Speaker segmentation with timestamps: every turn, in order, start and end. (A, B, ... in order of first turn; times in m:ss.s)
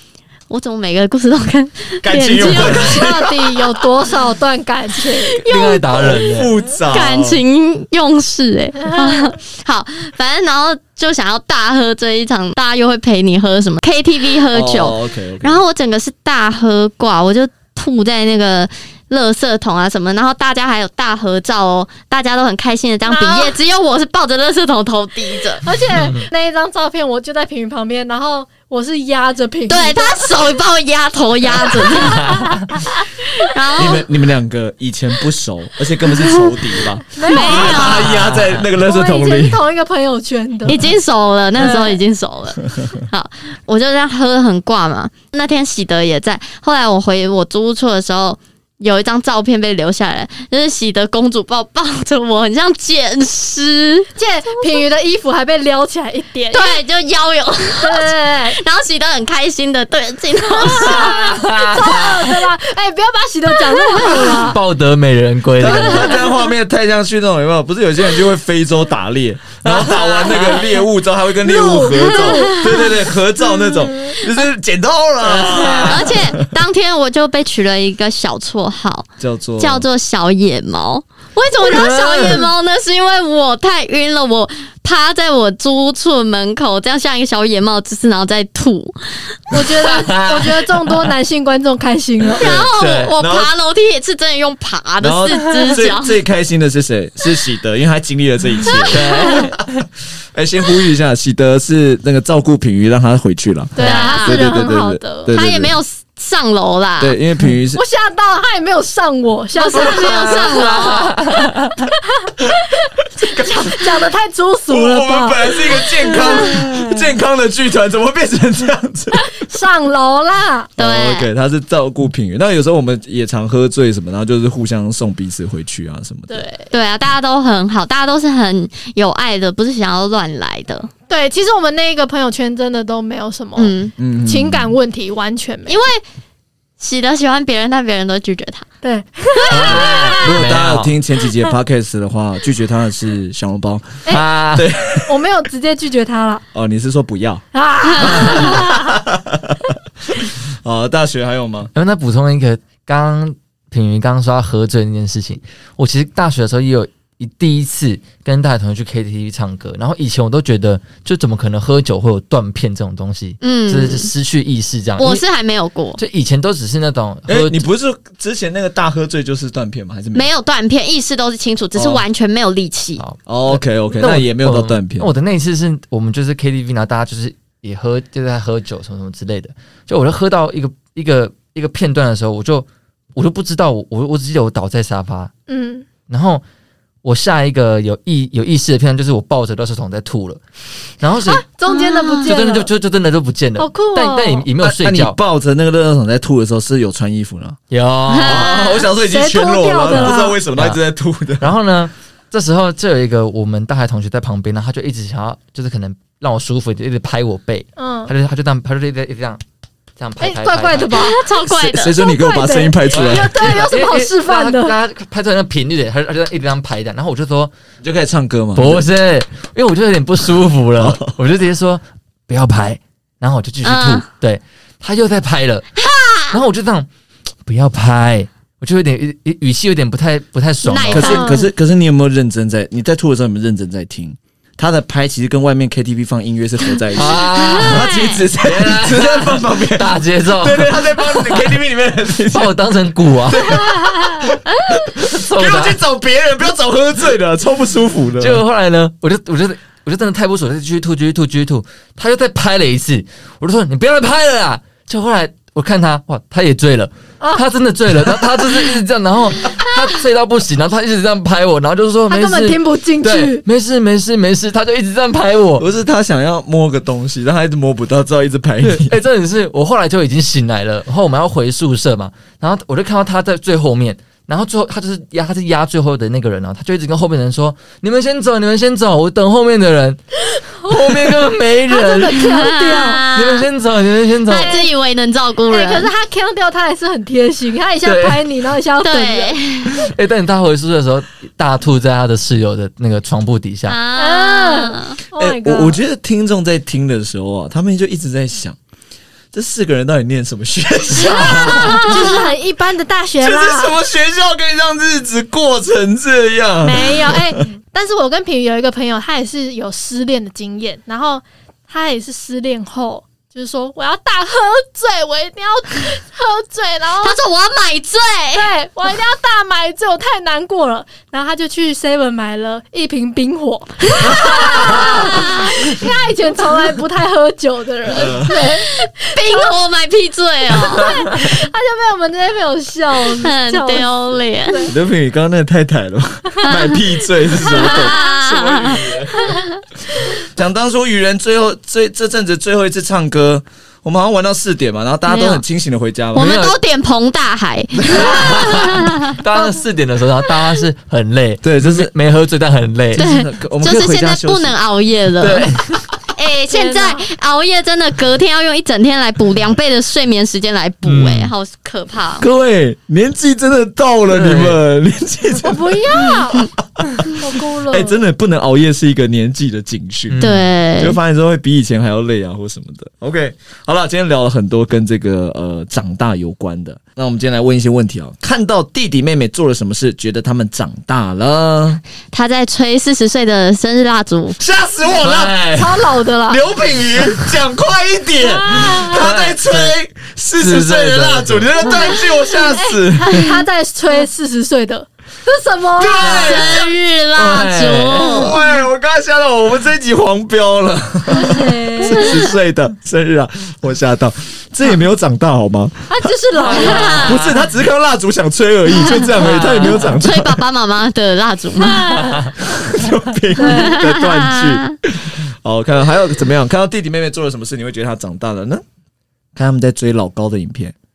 0:00.5-0:03.1 A
0:02.0-0:03.5 B
0:02.4-0:05.8 C
0:02.6-0:02.9 D
0:05.0-0:05.8 A
0:05.5-0:06.5 D
0:06.0-0:07.4 B
0:06.9-0:25.7 A
0:08.8-0:09.4 C
0:14.5-0:15.6 B
0:23.1-0:23.5 C
0:25.6-0:30.4 C
0:25.9-0:26.3 D
0:29.7-0:32.5 A
0:31.7-0:32.3 C
0:32.1-0:32.7 D
0:33.4-0:34.0 A
0:33.8-0:39.6 B
0:37.2-0:38.1 A
0:37.2-0:38.0 C
0:37.7-0:38.7 D
0:38.7-0:40.9 C
0:40.6-0:54.8 A
0:41.6-0:42.0 C
0:54.2-0:56.8 C
0:56.5-1:01.1 A
0:57.8-0:58.6 C
1:00.6-1:04.6 C
1:00.7-1:02.4 D
1:04.0-1:06.1 D
1:05.6-1:16.4 B
1:05.6-1:06.3 C
1:09.6-1:10.5 D
1:11.4-1:12.9 C
1:13.5-1:14.2 C
1:15.3-1:16.1 D
1:15.8-1:19.1 A
1:19.2-1:19.8 B
1:19.6-1:29.6 A
1:21.6-1:22.5 D
1:29.5-1:32.6 C
1:29.8-1:31.1 D
1:32.3-1:33.5 B
1:32.4-1:36.2 A
1:32.8-1:33.1 D
1:35.0-1:39.7 B
1:38.6-1:39.5 A
1:38.9-1:39.6 D
1:39.0-1:39.5 C
1:40.3-1:45.8 B
1:43.8-1:45.3 C
1:43.8-1:44.7 A
1:45.3-1:47.2 A
1:47.0-1:47.8 B
1:47.7-1:56.6 C
1:49.6-1:51.2 A
1:50.8-1:51.9 D
1:53.2-1:53.8 B
1:54.7-1:59.4 B
1:59.4-2:00.7 C
2:00.8-2:01.3 A
2:00.8-2:06.5 B
2:06.3-2:06.7 C
2:06.7-2:10.9 A
2:11.1-2:15.8 C
2:13.6-2:13.9 A
2:14.0-2:14.7 B
2:15.7-2:16.0 A
2:16.8-2:18.7 A
2:18.8-2:20.4 C
2:19.4-2:19.8 A
2:19.5-2:20.9 D
2:19.7-2:25.2 B
2:24.1-2:24.7 D
2:25.0-2:26.4 C
2:26.5-2:27.4 B
2:27.5-2:28.9 C
2:27.9-2:28.3 A
2:28.0-2:29.6 B
2:30.6-2:31.7 B
2:31.8-2:45.2 D
2:43.4-2:44.1 A
2:45.0-2:46.0 A
2:46.0-2:47.6 D
2:47.3-2:50.3 B
2:50.1-2:53.0 A
2:51.8-2:52.0 B
2:53.0-3:05.3 D
2:53.3-2:55.1 B
3:05.5-3:05.9 C
3:06.1-3:06.4 D
3:07.0-3:10.4 D
3:11.0-3:11.5 D
3:11.2-3:12.7 C
3:11.7-3:12.3 A
3:12.2-3:15.2 D
3:13.6-3:14.5 C
3:14.6-3:17.6 B
3:17.7-3:18.6 D
3:18.1-3:18.6 A
3:18.2-3:21.5 B
3:18.4-3:20.4 C
3:19.9-3:20.8 D
3:21.4-3:29.4 D
3:27.8-3:28.1 C
3:30.0-3:31.2 D
3:30.2-3:31.2 C
3:30.9-3:32.0 A
3:31.5-3:33.5 B
3:32.0-3:34.8 C
3:32.9-3:37.5 D
3:37.8-3:38.9 B
3:38.6-3:45.7 D
3:40.8-3:41.2 B
3:43.6-3:44.0 A
3:45.8-3:46.4 A
3:46.3-3:46.9 D
3:47.5-3:51.3 D
3:50.6-3:51.3 A
3:50.9-4:02.6 B
3:51.0-3:51.5 C
3:56.9-3:57.9 D
3:57.3-3:58.2 A
3:58.4-4:01.6 D
4:02.3-4:04.1 D
4:03.3-4:08.4 B
4:05.1-4:05.8 D
4:08.2-4:25.6 D
4:17.2-4:17.5 C
4:22.1-4:23.4 C
4:25.6-4:29.0 B
4:28.6-4:40.0 D
4:40.6-4:42.5 D
4:40.7-4:41.0 C
4:41.7-4:43.0 C
4:42.2-4:43.5 A
4:43.1-4:44.6 D
4:44.3-4:45.9 A
4:44.3-4:44.7 C
4:45.5-4:49.4 C
4:47.8-4:48.3 D
4:48.8-4:49.9 A
4:49.7-4:53.8 D
4:53.7-4:55.0 A
4:53.9-4:55.8 C
4:55.2-4:58.6 B
4:59.3-5:02.2 B
5:01.0-5:01.8 D
5:01.5-5:02.3 A
5:01.7-5:03.7 C
5:03.2-5:07.4 B
5:06.6-5:17.2 C
5:17.0-5:18.5 A
5:18.3-5:29.5 C
5:24.4-5:25.6 A
5:24.6-5:25.0 D
5:27.9-5:28.3 B
5:28.2-5:31.0 A
5:30.5-5:34.8 C
5:33.2-5:34.7 A
5:34.7-5:39.2 B
5:37.5-5:39.5 A
5:37.5-5:38.0 C
5:39.2-5:39.4 C
5:40.3-5:46.3 B
5:45.1-5:45.4 A
5:46.2-5:46.6 D
5:46.2-5:49.2 A
5:47.8-5:48.1 B
5:47.9-5:53.1 D
5:51.4-5:51.9 B
5:52.9-5:54.6 B
5:53.0-6:02.2 A
5:55.2-5:55.8 D
5:56.5-5:57.1 C
6:00.8-6:01.3 D
6:02.2-6:06.1 B
6:04.1-6:04.6 D
6:05.4-6:06.5 C
6:06.0-6:06.5 A
6:06.8-6:07.1 B
6:07.2-6:08.0 C
6:07.7-6:10.2 B
6:10.1-6:10.5 D
6:10.2-6:11.0 A
6:10.8-6:21.8 B
6:22.1-6:24.4 A
6:24.4-6:25.4 B
6:24.9-6:25.8 D
6:25.5-6:26.4 C
6:26.3-6:33.1 B
6:28.4-6:28.8 C
6:28.5-6:29.8 D
6:30.4-6:31.8 D
6:32.5-6:36.6 C
6:35.8-6:36.7 B
6:35.9-6:38.3 A
6:37.2-6:38.3 D
6:37.2-6:46.2 B
6:41.1-6:42.3 C
6:45.9-6:47.2 C
6:46.5-6:47.2 A
6:46.5-6:47.4 D
6:47.0-6:50.4 B
6:49.1-6:50.0 D
6:49.7-6:52.3 A
6:51.9-6:52.3 D
6:52.4-6:58.6 B
6:53.4-6:53.8 C
6:53.4-6:54.7 A
6:59.4-7:00.8 B